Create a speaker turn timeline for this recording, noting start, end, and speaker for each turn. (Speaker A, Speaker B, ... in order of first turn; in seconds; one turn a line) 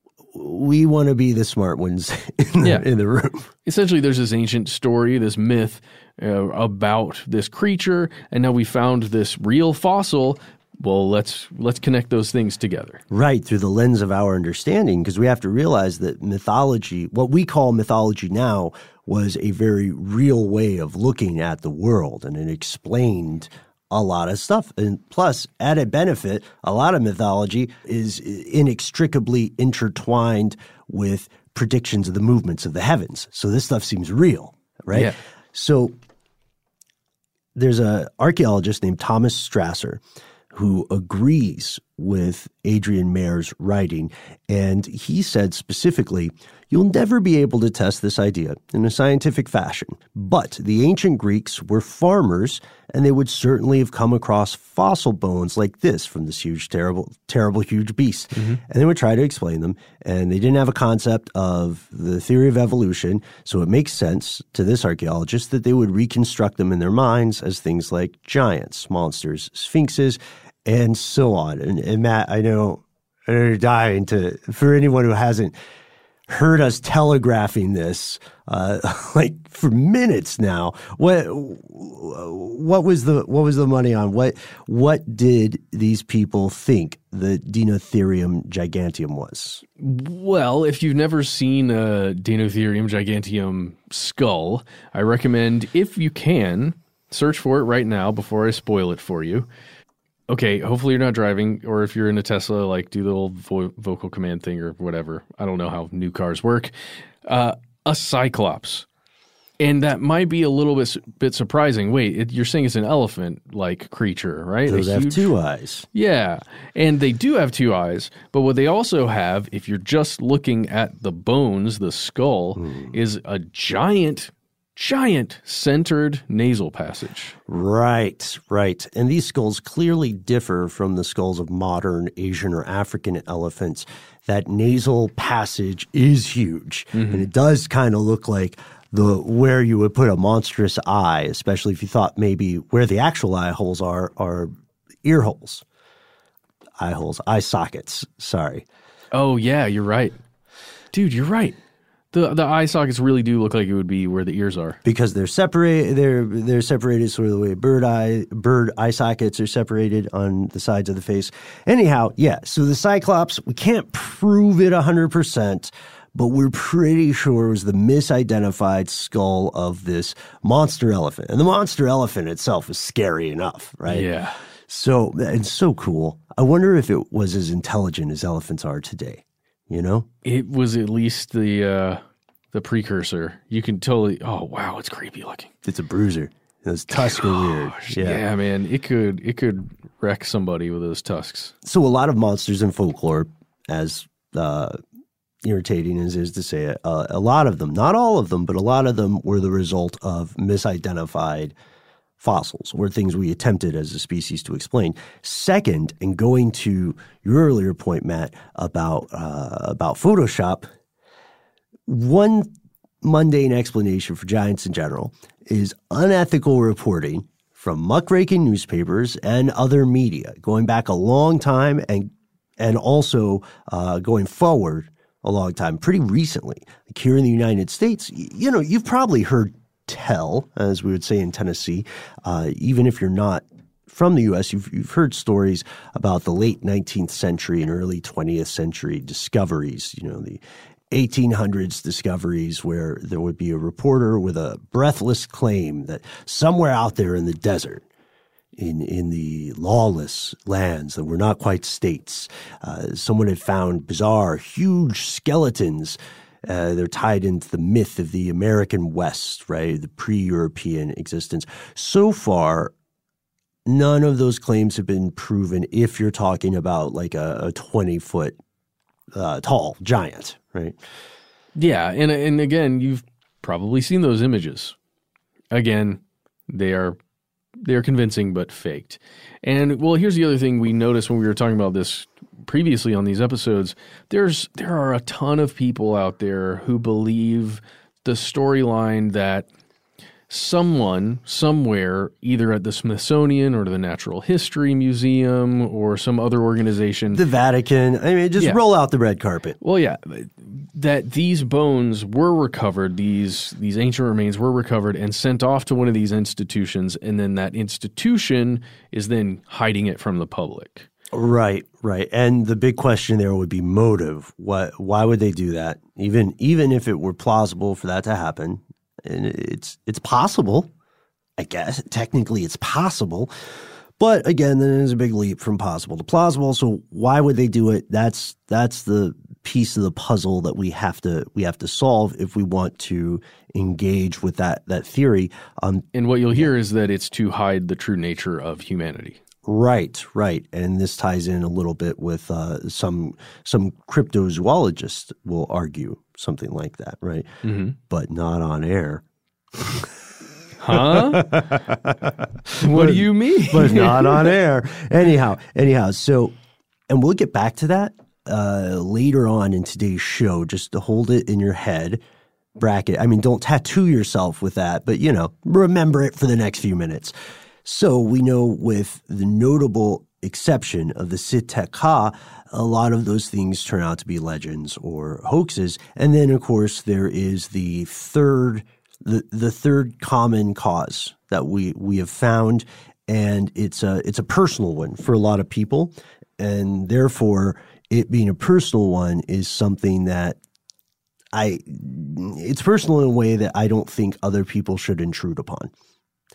Speaker A: 0.3-3.5
Speaker B: 2.6-2.9
Speaker B: 3.6-13.0
Speaker A: 13.1-36.0
Speaker A: 37.5-40.0
Speaker A: 40.5-75.5
Speaker B: 58.4-58.6
Speaker A: 76.3-89.6
Speaker B: 89.8-99.5
Speaker B: 100.3-106.7
Speaker B: 107.2-108.9
Speaker B: 109.6-115.3
Speaker A: 114.7-115.9
Speaker B: 115.9-127.4
Speaker A: 122.6-123.0
Speaker A: 127.5-144.5
Speaker B: 136.9-137.3
Speaker A: 145.0-145.6
Speaker A: 146.8-148.7
Speaker B: 149.1-150.2
Speaker B: 150.9-151.6
Speaker B: 152.1-154.8
Speaker A: 154.8-174.1
Speaker B: 173.9-174.4
Speaker A: 174.7-180.1
Speaker B: 180.2-185.5
Speaker A: 185.7-188.2
Speaker B: 186.9-191.5
Speaker A: 191.6-194.8
Speaker A: 195.4-201.5
Speaker A: 202.2-210.7
Speaker A: 211.9-212.5
Speaker A: 213.0-247.8
Speaker A: 248.6-262.7
Speaker A: 263.7-268.4
Speaker A: 269.1-270.8
Speaker B: 271.6-274.8
Speaker B: 275.5-277.0
Speaker B: 277.6-289.5
Speaker B: 290.3-297.2
Speaker A: 297.1-299.6
Speaker B: 299.6-310.9
Speaker A: 311.1-320.7
Speaker A: 321.4-323.3
Speaker A: 324.0-336.5
Speaker B: 335.9-339.2
Speaker A: 339.5-347.3
Speaker B: 347.4-347.8
Speaker A: 347.9-349.0
Speaker A: 349.6-349.9
Speaker B: 350.6-351.3
Speaker A: 350.7-356.3
Speaker B: 352.6-354.3
Speaker A: 356.9-362.0
Speaker A: 362.6-367.1
Speaker A: 367.6-390.4
Speaker A: 391.3-395.7